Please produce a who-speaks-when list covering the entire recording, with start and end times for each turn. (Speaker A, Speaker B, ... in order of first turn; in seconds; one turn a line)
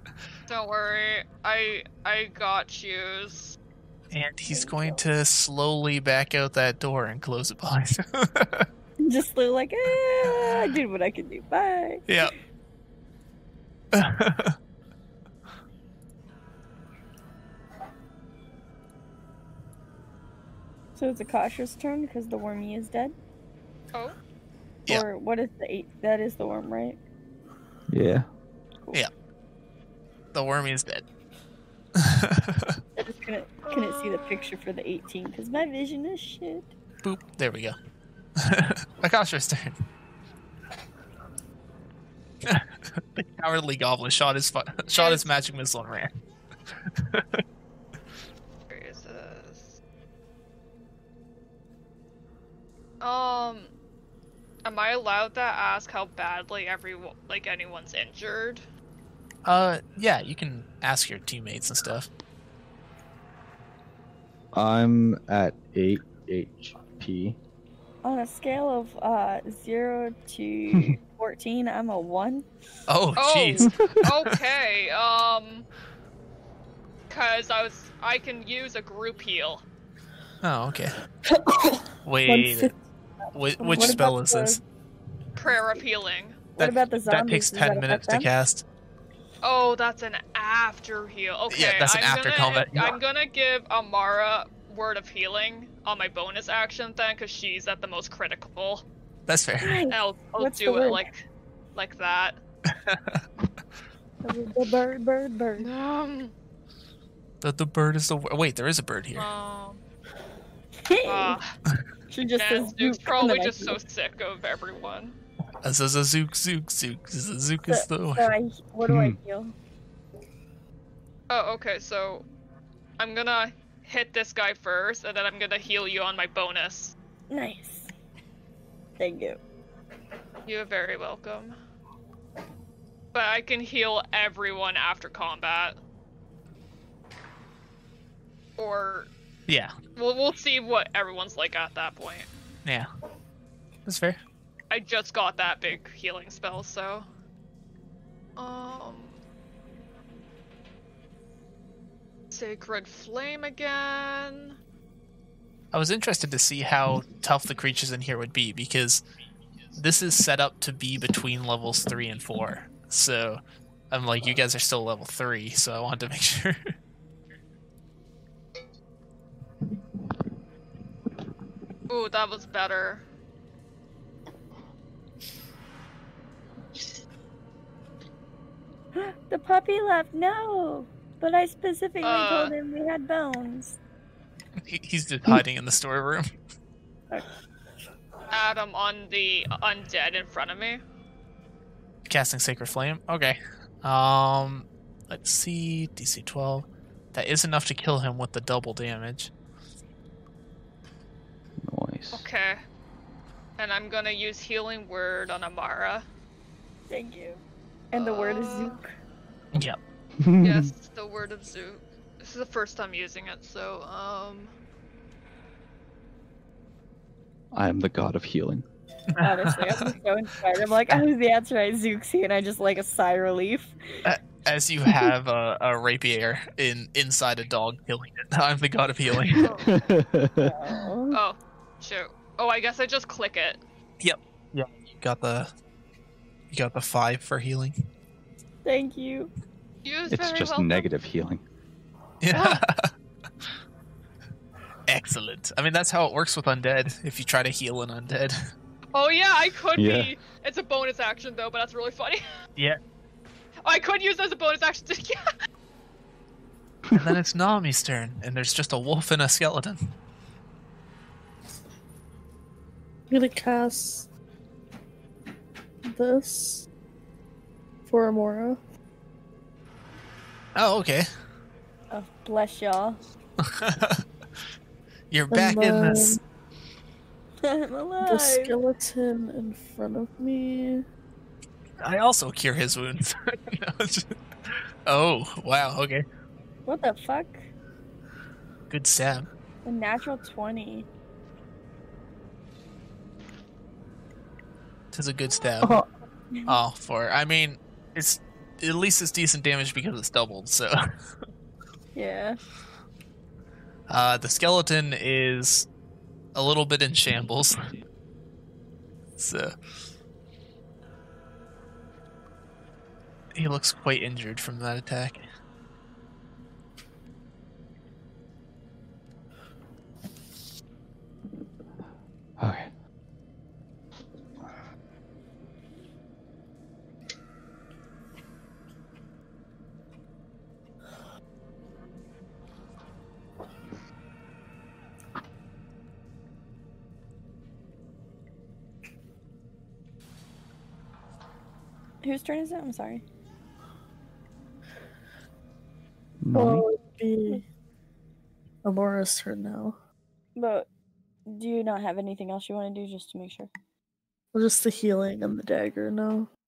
Speaker A: 0.5-3.6
Speaker B: 4.1-8.7
Speaker C: 4.5-5.0
Speaker C: 9.0-12.1
Speaker B: 10.2-10.7
Speaker B: 12.1-12.3
Speaker B: 13.9-14.6
Speaker C: 21.0-23.1
Speaker C: 24.9-27.0
Speaker D: 27.9-28.3
Speaker B: 30.3-31.0
Speaker B: 32.0-32.8
Speaker C: 33.0-36.7
Speaker A: 33.7-34.5
Speaker B: 37.0-37.8
Speaker B: 38.4-39.8
Speaker B: 42.5-46.1
Speaker A: 45.0-45.3
Speaker B: 46.8-47.4
Speaker A: 48.7-49.8
Speaker A: 53.0-53.7
Speaker A: 54.6-58.6
Speaker B: 59.5-62.1
Speaker D: 64.5-67.4
Speaker C: 68.0-72.5
Speaker B: 72.9-74.4
Speaker A: 73.2-75.7
Speaker A: 77.1-79.6
Speaker B: 80.4-81.0
Speaker E: 81.3-82.7
Speaker B: 82.0-82.7
Speaker B: 83.3-84.6
Speaker C: 83.6-84.6
Speaker E: 83.7-84.0
Speaker A: 85.4-86.4
Speaker C: 86.6-88.3
Speaker B: 86.6-88.6
Speaker A: 89.4-98.8
Speaker B: 91.5-93.0
Speaker B: 99.3-99.9
Speaker C: 99.6-101.1
Speaker A: 99.9-101.2
Speaker A: 101.8-102.4
Speaker B: 102.7-103.2
Speaker C: 104.2-105.7
Speaker A: 105.6-106.3
Speaker B: 107.4-109.3
Speaker A: 109.2-109.8
Speaker C: 110.8-111.4
Speaker A: 111.0-111.5
Speaker C: 112.1-113.8
Speaker A: 112.4-115.2
Speaker B: 115.6-118.3
Speaker C: 117.7-119.5
Speaker D: 118.9-119.2
Speaker A: 121.3-122.2
Speaker A: 123.0-126.9
Speaker C: 127.3-127.9
Speaker C: 129.0-129.4
Speaker A: 130.5-131.6
Speaker A: 133.1-135.8
Speaker A: 138.6-139.1
Speaker B: 139.5-139.8
Speaker A: 139.9-142.3
Speaker B: 143.9-144.2
Speaker A: 144.7-147.1
Speaker A: 148.4-149.2
Speaker A: 152.3-154.6
Speaker B: 155.7-159.0
Speaker B: 159.8-166.6
Speaker A: 171.9-173.0
Speaker C: 178.9-183.8
Speaker A: 182.0-182.5
Speaker B: 184.6-186.3
Speaker A: 188.3-190.8
Speaker B: 192.1-199.3
Speaker D: 201.6-202.3
Speaker A: 202.1-202.6
Speaker A: 203.6-206.1
Speaker C: 206.9-208.9
Speaker A: 207.9-208.8
Speaker D: 210.2-210.7
Speaker A: 210.4-214.5
Speaker D: 217.5-218.7
Speaker B: 219.2-219.9
Speaker C: 219.2-223.8
Speaker B: 224.1-229.6
Speaker D: 229.4-230.5
Speaker A: 229.4-229.7
Speaker C: 230.4-231.2
Speaker A: 231.1-233.6
Speaker B: 234.0-235.5
Speaker B: 236.5-237.7
Speaker C: 238.7-239.3
Speaker A: 239.8-240.9
Speaker D: 240.1-241.4
Speaker B: 242.2-242.9
Speaker A: 242.3-242.6
Speaker B: 244.9-248.4
Speaker A: 248.9-252.2
Speaker D: 249.8-250.1
Speaker A: 253.6-255.3
Speaker B: 256.9-259.9
Speaker E: 263.1-264.1
Speaker E: 265.9-266.7
Speaker E: 267.9-268.6
Speaker B: 270.6-271.1
Speaker C: 271.9-273.0
Speaker B: 273.4-274.0
Speaker B: 275.1-276.2
Speaker E: 275.3-276.2
Speaker C: 277.4-278.6
Speaker E: 278.0-280.9
Speaker B: 281.8-286.0
Speaker C: 286.7-287.5
Speaker B: 288.7-289.3
Speaker C: 289.6-290.9
Speaker B: 294.9-295.8
Speaker B: 296.5-300.8
Speaker C: 301.9-302.4
Speaker B: 303.9-305.7
Speaker B: 306.4-307.7
Speaker B: 309.2-309.5
Speaker B: 313.4-315.2
Speaker D: 322.4-322.7
Speaker C: 342.0-343.0
Speaker D: 346.2-346.7
Speaker E: 346.3-347.4
Speaker E: 348.6-349.8
Speaker C: 350.4-350.7
Speaker C: 351.3-353.5
Speaker E: 354.3-356.3